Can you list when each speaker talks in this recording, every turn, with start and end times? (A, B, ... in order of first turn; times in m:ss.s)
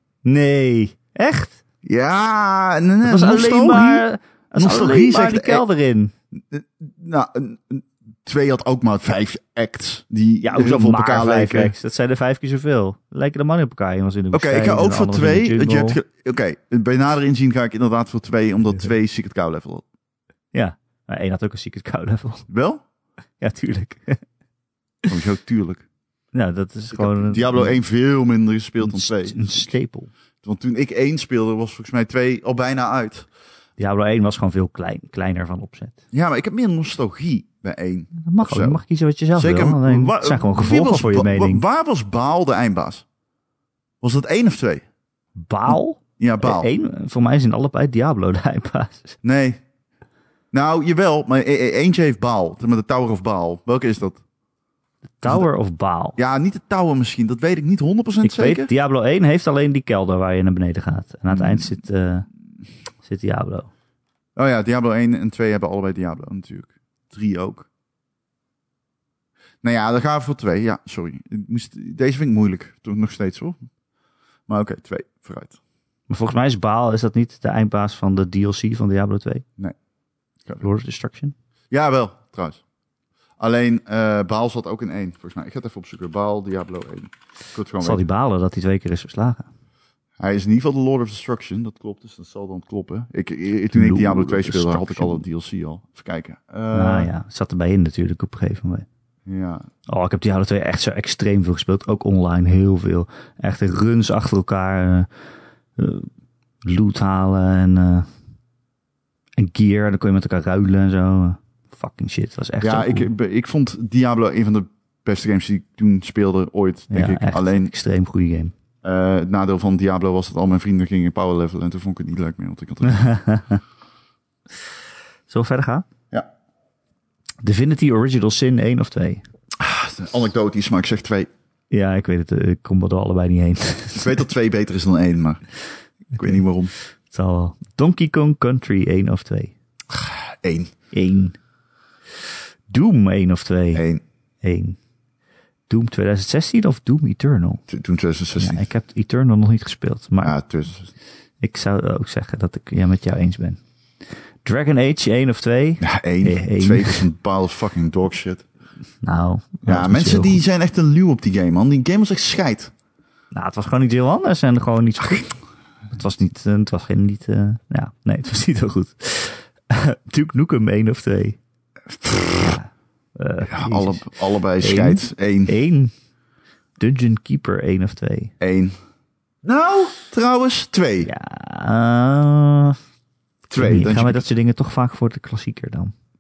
0:00.2-0:01.6 A
0:01.8-0:04.0 B
0:03.0-0:06.1 A
0:04.6-0:05.6 B
0:06.3-0:11.7 B
0:10.4-0:16.0 A
0:14.3-0:19.8 B
0:20.5-0:22.5 A
0:22.5-0:22.8 B
0:23.4-0:24.2 A
0:25.1-0:25.8 B
0:26.3-0:27.8 A
0:26.9-0:29.7 B
0:28.8-0:30.1 A
0:30.4-0:33.3 B
0:33.8-0:36.0 A
0:36.1-0:38.8 B
0:38.2-0:41.6 A
0:39.4-0:43.0 B
0:44.0-0:44.8 B
0:45.4-0:49.2 A
0:46.2-0:46.7 B
0:49.2-0:49.6 B
0:50.5-0:54.2 B
0:55.2-0:56.2 A
0:56.2-0:58.7 B
0:58.2-1:02.3 A
1:01.3-1:01.7 B
1:03.0-1:03.7 A
1:04.4-1:07.7 B
1:09.6-1:13.6 B
1:14.5-1:15.6 B
1:16.1-1:19.4 A
1:20.6-1:21.3 A
1:21.7-1:22.6 B
1:23.4-1:28.0 B
1:27.8-1:29.5 A
1:30.2-1:37.1 B
1:33.7-1:35.2 A
1:36.7-1:38.8 A
1:39.3-1:39.7 B
1:39.9-1:45.1 A
1:45.8-1:46.1 A
1:46.6-1:48.1 A
1:49.4-1:53.1 A
1:52.6-1:57.7 B
1:56.9-1:58.5 A
1:58.8-2:03.1 B
2:02.8-2:03.6 A
2:05.3-2:05.8 A
2:07.4-2:09.2 A
2:09.6-2:11.3 B
2:11.7-2:14.2 A
2:13.9-2:15.4 B
2:16.1-2:16.7 B
2:16.2-2:16.4 A
2:17.1-2:19.5 A
2:19.9-2:20.7 B
2:20.9-2:21.4 A
2:22.7-2:23.8 A
2:23.7-2:24.0 B
2:24.4-2:24.8 A
2:25.7-2:27.6 A
2:27.7-2:28.6 B
2:28.4-2:30.4 A
2:30.2-2:30.9 B
2:31.4-2:33.6 A
2:34.4-2:37.0 A
2:35.8-2:38.4 B
2:39.0-2:40.4 A
2:39.6-2:42.7 B
2:43.3-2:45.3 A
2:45.9-2:51.4 A
2:51.9-2:52.6 B
2:52.4-2:54.1 A
2:53.4-2:55.5 B
2:54.6-2:55.9 A
2:56.8-2:58.3 A
2:58.4-2:58.8 B
2:59.4-3:01.1 B
3:01.0-3:02.8 A
3:03.5-3:04.2 B
3:03.6-3:05.9 A